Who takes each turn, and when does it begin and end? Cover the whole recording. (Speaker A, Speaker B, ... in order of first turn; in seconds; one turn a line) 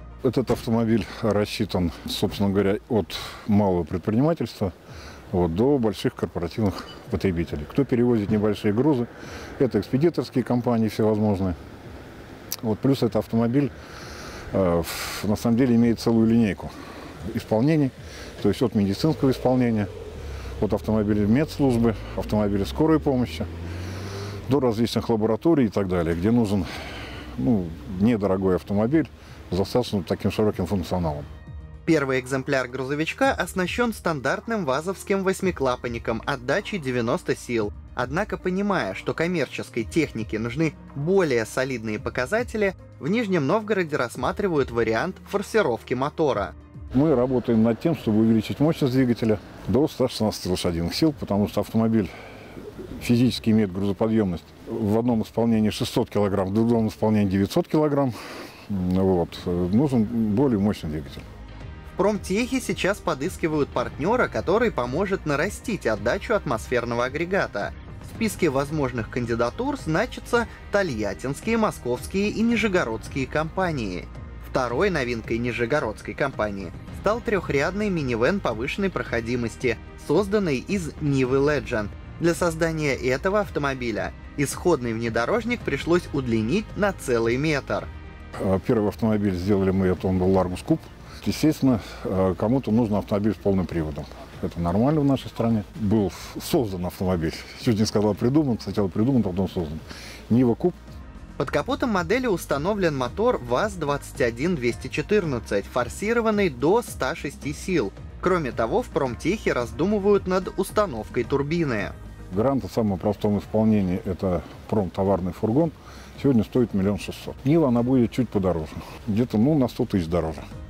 Speaker A: 0.2-4.7
Speaker A: 5.3-11.6
Speaker A: 12.6-13.7
Speaker A: 14.5-16.7
Speaker A: 17.3-19.9
Speaker A: 20.6-23.5
Speaker A: 24.5-26.7
Speaker A: 27.4-31.3
Speaker B: 31.9-46.5
Speaker A: 46.9-52.1
Speaker A: 52.8-58.1
Speaker A: 58.7-61.2
Speaker B: 61.9-87.9
Speaker A: 88.4-100.8
Speaker B: 101.4-111.9
Speaker A: 112.3-120.4